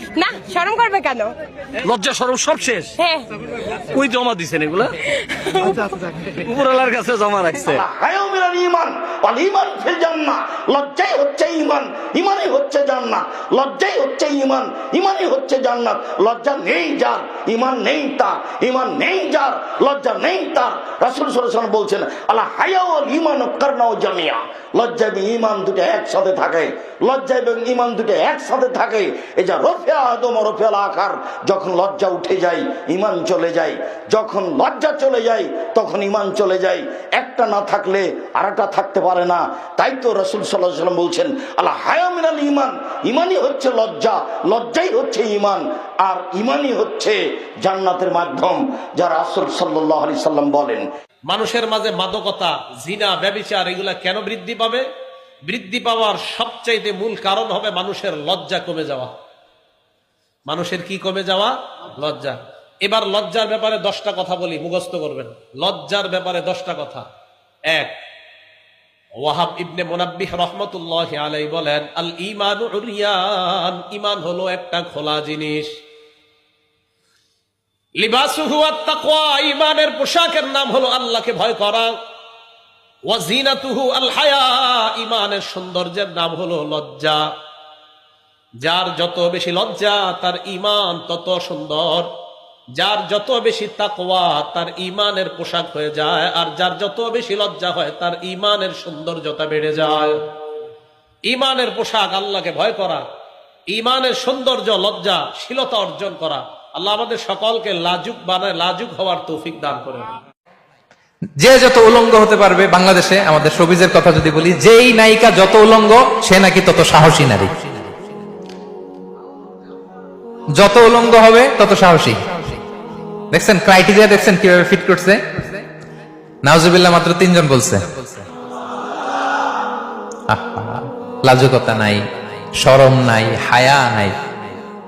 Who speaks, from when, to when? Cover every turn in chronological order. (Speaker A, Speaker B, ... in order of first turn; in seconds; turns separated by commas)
Speaker A: 0.1-1.3, Speaker B: 1.8-2.9, Speaker A: 3.0-3.3, Speaker B: 3.9-4.9, Speaker A: 5.2-5.9, Speaker B: 6.4-7.8, Speaker C: 7.6-50.9, Speaker D: 51.3-54.8, Speaker D: 55.5-59.1, Speaker D: 60.5-67.0, Speaker D: 67.7-68.0, Speaker D: 69.2-75.7, Speaker D: 78.0-81.9, Speaker D: 83.1-87.2, Speaker D: 88.6-92.1, Speaker D: 92.8-100.2, Speaker D: 101.3-103.0, Speaker D: 103.7-110.1, Speaker E: 111.4-117.8, Speaker E: 120.6-122.2, Speaker E: 123.3-125.6, Speaker E: 126.4-128.2, Speaker E: 130.3-132.1, Speaker E: 132.6-134.2